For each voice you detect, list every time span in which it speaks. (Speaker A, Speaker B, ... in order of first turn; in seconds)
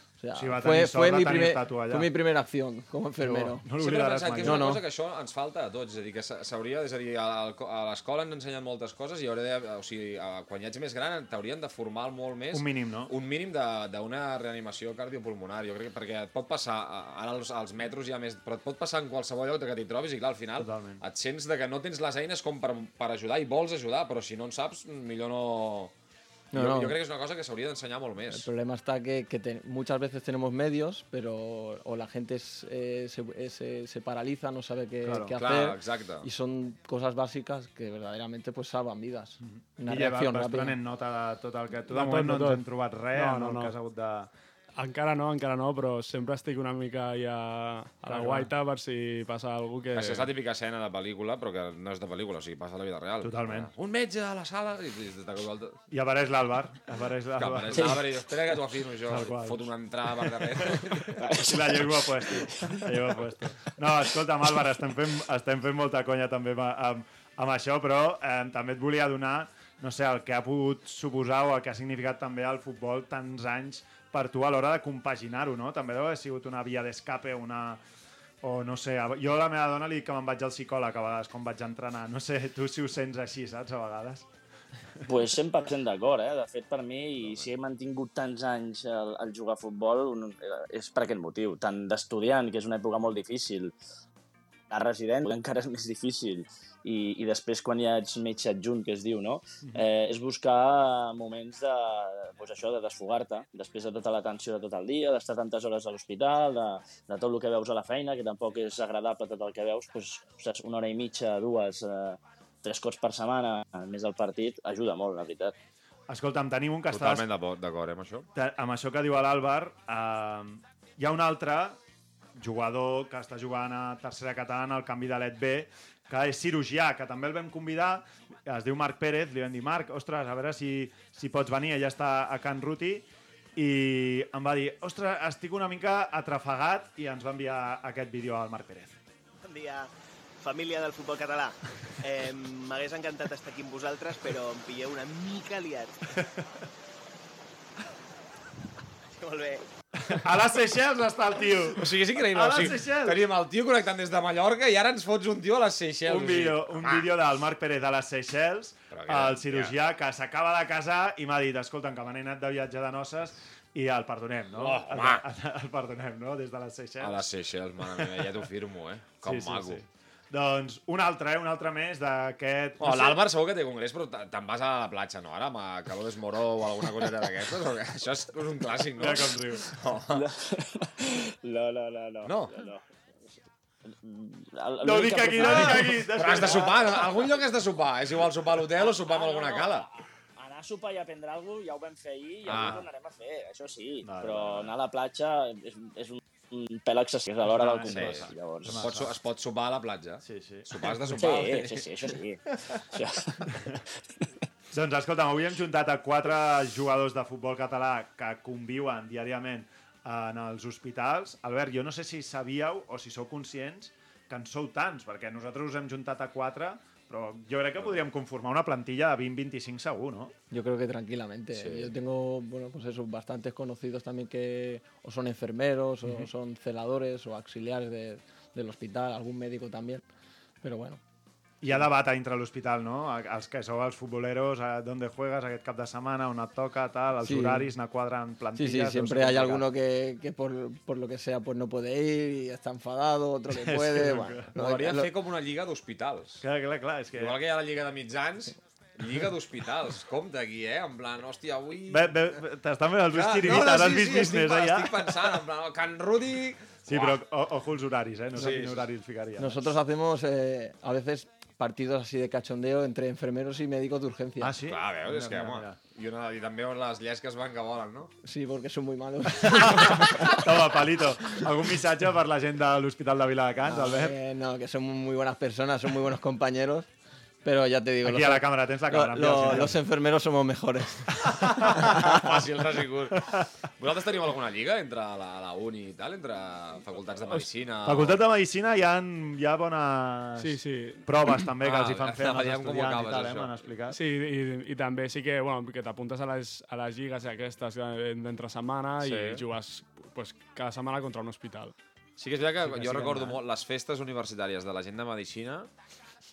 Speaker A: 0.2-3.6, 4.4-4.8, 26.5-27.0, 28.3-40.8, 220.5-230.0, 230.6-231.0, 237.2-237.7, 238.5-245.1, 259.4-264.6, 268.2-270.5, 273.6-276.9, 277.4-282.4
Speaker B: 0.3-2.1, 3.2-4.8, 12.5-13.1, 20.6-21.0, 35.0-35.3, 39.4-44.3, 48.0-48.5, 53.2-53.7, 55.9-58.0, 59.1-59.7, 60.2-77.8, 78.4-84.2, 116.1-117.2, 118.3-121.8, 122.3-138.9, 150.1-153.2, 156.1-167.2, 168.0-168.2, 169.2-173.2, 179.0-179.7, 184.8-187.0, 192.6-192.8, 194.0-194.7, 197.4-199.1, 200.2-201.0, 203.5-203.8, 204.7-220.3, 231.6-239.6, 243.5-244.5, 246.4-247.3, 251.9-255.2, 256.9-259.7, 264.4-265.8, 269.4-274.1, 278.0-279.8, 281.2-282.2, 287.3-294.0, 302.6-303.4
Speaker C: 3.8-25.9, 26.5-28.5, 35.3-36.3, 49.9-55.8, 57.4-61.1, 116.9-118.3, 151.7-157.1, 158.9-159.7, 164.6-165.2, 167.0-169.8, 172.8-180.2, 182.2-182.6, 185.4-189.9, 192.5-192.8, 197.9-201.9, 221.5-221.9, 244.6-246.4, 247.2-252.3, 253.1-257.2, 258.3-258.9, 264.7-268.1, 281.6-288.2, 291.6-293.5, 299.0-299.4, 302.2-305.7
Speaker D: 41.9-43.7, 44.8-50.3, 290.4-291.1, 293.9-301.7
Speaker E: 61.1-62.9, 85.0-93.7, 94.7-115.5, 180.1-182.8, 183.9-186.5, 188.8-198.9, 201.1-203.5
Speaker F: 139.4-146.0, 149.1-149.6